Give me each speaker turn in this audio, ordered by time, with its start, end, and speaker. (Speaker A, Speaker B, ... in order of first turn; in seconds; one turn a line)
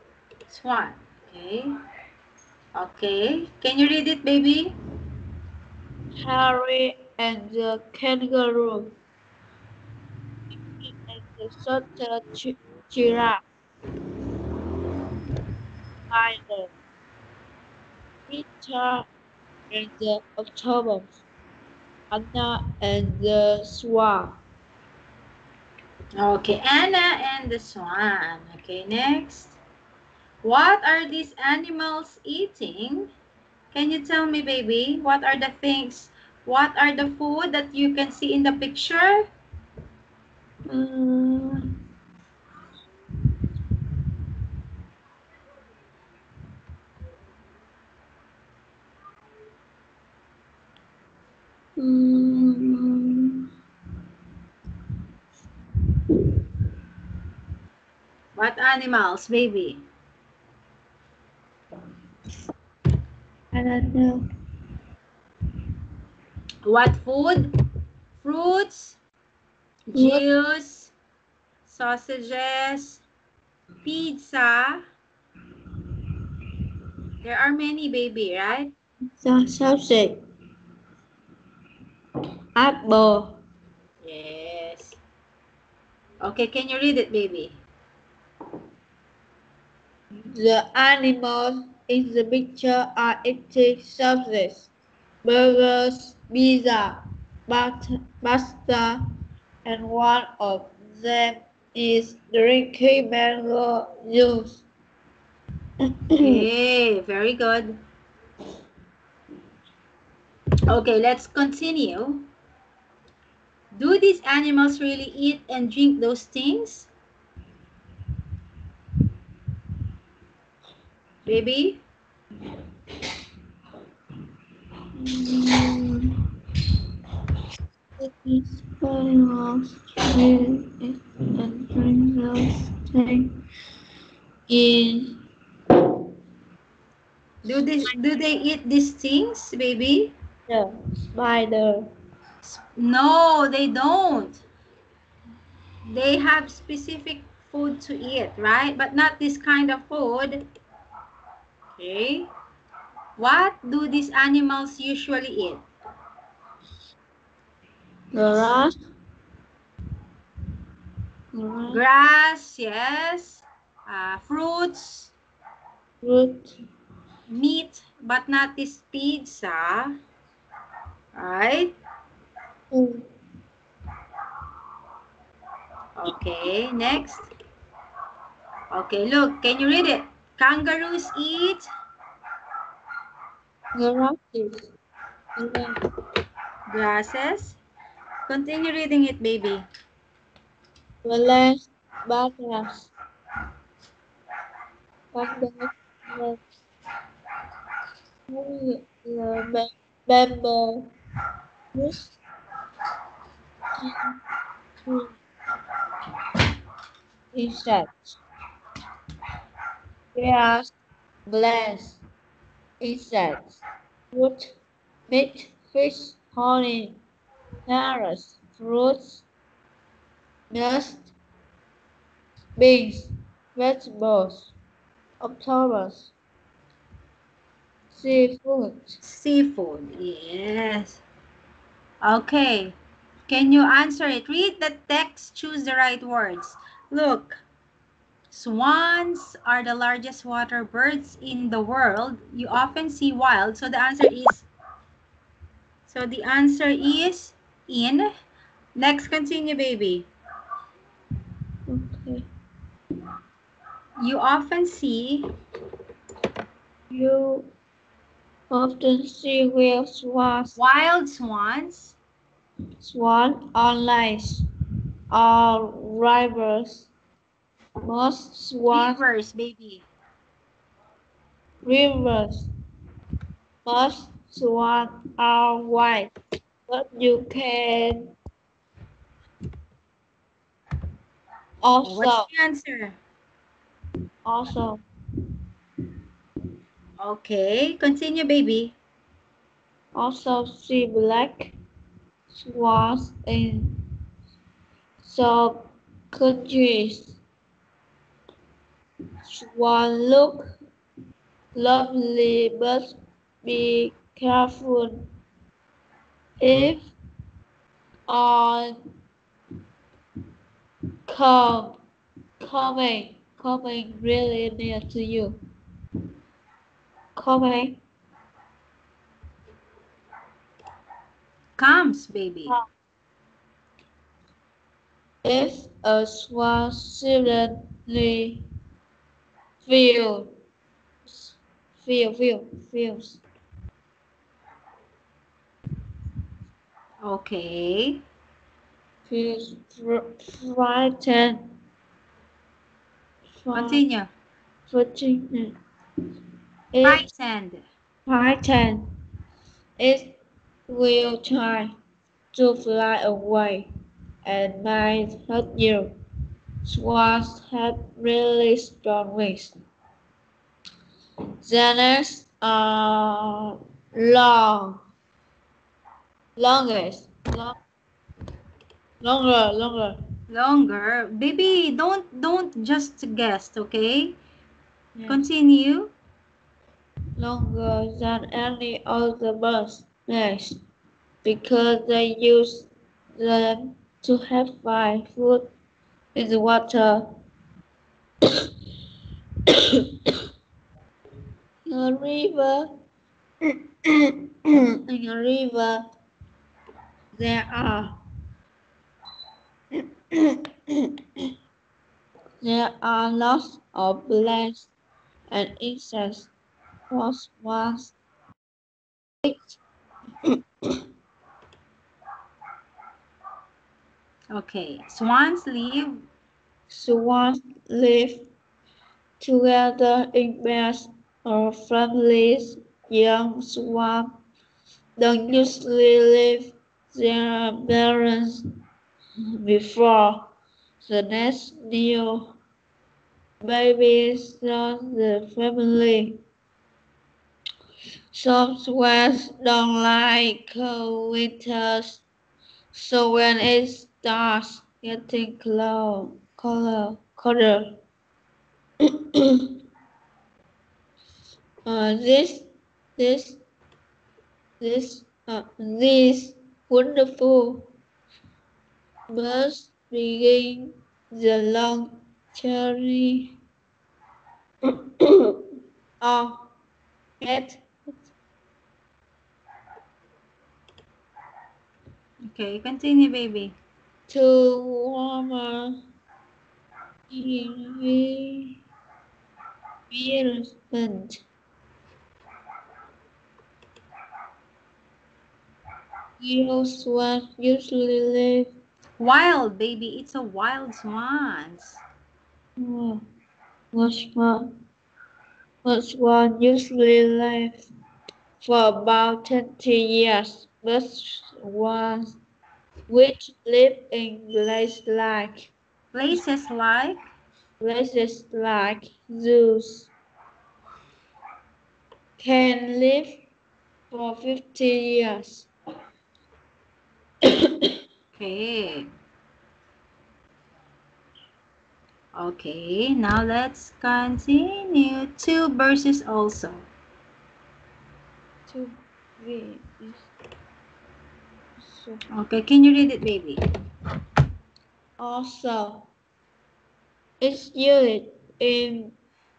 Speaker A: 0.5-1.7
Speaker A: 2.8-4.7
Speaker B: 6.2-8.9
Speaker B: 10.7-13.4
Speaker B: 16.1-16.7
Speaker B: 18.3-19.1
Speaker B: 19.7-21.2
Speaker B: 22.1-24.4
Speaker A: 26.2-29.6
Speaker A: 30.4-33.1
Speaker A: 33.7-39.3
Speaker B: 40.7-41.6
Speaker B: 51.8-53.5
Speaker A: 58.4-59.8
Speaker B: 63.5-64.2
Speaker A: 66.7-67.5
Speaker A: 68.2-69.0
Speaker A: 69.9-70.9
Speaker B: 69.9-70.2
Speaker A: 71.7-73.0
Speaker A: 73.8-74.8
Speaker A: 77.2-78.7
Speaker B: 79.2-80.2
Speaker B: 82.5-83.4
Speaker A: 84.0-85.0
Speaker A: 86.2-87.6
Speaker B: 90.2-94.7
Speaker B: 95.2-99.0
Speaker B: 99.6-104.6
Speaker B: 105.8-106.5
Speaker A: 106.2-107.8
Speaker A: 110.7-112.3
Speaker A: 113.7-116.9
Speaker A: 121.2-121.8
Speaker B: 125.0-126.2
Speaker B: 128.0-133.4
Speaker B: 134.5-135.2
Speaker A: 137.4-140.1
Speaker B: 140.5-141.9
Speaker A: 142.4-144.4
Speaker A: 145.9-150.4
Speaker A: 151.8-152.3
Speaker A: 153.2-155.6
Speaker B: 158.1-158.7
Speaker B: 161.3-161.8
Speaker A: 161.7-165.1
Speaker B: 166.0-166.6
Speaker A: 167.3-170.0
Speaker A: 171.2-171.8
Speaker B: 172.7-173.1
Speaker A: 176.0-177.3
Speaker A: 178.7-181.7
Speaker B: 183.7-184.7
Speaker B: 185.4-185.8
Speaker A: 186.7-187.6
Speaker A: 188.3-189.7
Speaker B: 191.0-192.9
Speaker B: 195.1-196.4
Speaker B: 198.3-200.9
Speaker B: 201.7-202.2
Speaker B: 203.8-204.2
Speaker B: 207.3-208.2
Speaker B: 210.1-210.7
Speaker B: 211.3-212.0
Speaker B: 212.8-213.6
Speaker B: 214.1-214.5
Speaker B: 215.1-217.0
Speaker B: 217.7-219.2
Speaker B: 220.5-221.1
Speaker B: 222.6-224.5
Speaker B: 225.2-226.1
Speaker B: 227.9-229.0
Speaker A: 229.0-231.0
Speaker A: 232.0-232.8
Speaker A: 233.3-237.4
Speaker A: 238.3-244.5
Speaker A: 245.9-248.1
Speaker A: 248.8-250.1
Speaker B: 251.7-252.3
Speaker A: 254.0-255.2
Speaker B: 256.9-257.5
Speaker B: 258.5-260.6
Speaker A: 260.6-262.0
Speaker B: 262.8-264.5
Speaker B: 265.1-266.9
Speaker B: 267.8-269.0
Speaker A: 268.7-269.9
Speaker B: 271.6-272.5
Speaker B: 273.6-276.1
Speaker B: 276.7-278.1
Speaker B: 281.6-282.3
Speaker A: 281.8-283.0
Speaker B: 284.2-284.8
Speaker A: 287.0-288.8
Speaker B: 289.9-291.6
Speaker B: 292.3-293.8
Speaker B: 295.0-297.2
Speaker B: 299.2-300.5
Speaker B: 301.6-305.1
Speaker B: 306.4-306.9
Speaker B: 308.1-308.8
Speaker B: 311.1-311.8
Speaker B: 312.4-315.4
Speaker B: 317.1-317.8
Speaker A: 321.6-322.5
Speaker B: 325.2-328.4
Speaker B: 329.6-330.4
Speaker B: 331.1-333.2
Speaker A: 337.0-338.0
Speaker B: 339.1-341.5
Speaker B: 343.4-343.8
Speaker A: 343.5-344.1
Speaker B: 344.7-345.6
Speaker B: 346.7-347.1
Speaker A: 346.8-347.6
Speaker B: 348.1-348.9
Speaker B: 349.8-350.2
Speaker B: 350.7-351.7
Speaker B: 352.3-353.7
Speaker B: 354.2-355.9
Speaker B: 356.6-359.6
Speaker B: 361.4-364.8
Speaker B: 366.4-367.6
Speaker B: 369.0-370.0
Speaker A: 370.3-374.2
Speaker B: 374.9-375.2
Speaker A: 375.1-375.9
Speaker B: 377.2-380.6
Speaker B: 381.2-385.5
Speaker B: 386.1-387.1
Speaker B: 388.2-388.5
Speaker B: 389.5-390.2
Speaker B: 391.7-392.8
Speaker B: 393.4-395.9
Speaker B: 397.1-398.0
Speaker B: 399.7-400.9
Speaker B: 402.4-404.7
Speaker B: 405.3-406.3
Speaker B: 406.9-407.9
Speaker B: 409.2-409.5
Speaker B: 410.3-410.8
Speaker A: 414.3-416.0
Speaker B: 416.7-418.2
Speaker B: 419.2-424.2
Speaker B: 425.0-428.4
Speaker B: 429.3-430.3
Speaker B: 430.8-432.4
Speaker B: 433.4-436.2
Speaker B: 438.1-442.0
Speaker B: 442.7-447.8
Speaker B: 448.8-449.6
Speaker B: 451.6-453.4
Speaker B: 454.6-457.7
Speaker B: 459.1-463.4
Speaker B: 464.7-465.4
Speaker B: 466.0-466.5
Speaker B: 467.2-467.7
Speaker A: 472.2-473.6
Speaker B: 474.1-475.8
Speaker B: 477.1-478.6
Speaker B: 479.9-481.2
Speaker B: 486.2-488.6
Speaker A: 489.0-491.8
Speaker B: 492.6-493.1
Speaker B: 493.7-494.6
Speaker B: 495.6-497.7
Speaker B: 498.4-502.2
Speaker B: 502.9-505.5
Speaker A: 505.9-507.1
Speaker B: 507.6-509.9
Speaker B: 512.2-513.2
Speaker B: 513.9-515.5
Speaker B: 517.2-517.7
Speaker A: 518.2-518.9
Speaker A: 522.1-526.7
Speaker B: 528.5-530.1
Speaker B: 531.6-532.0
Speaker A: 532.1-533.4
Speaker B: 535.0-535.9
Speaker B: 537.2-539.0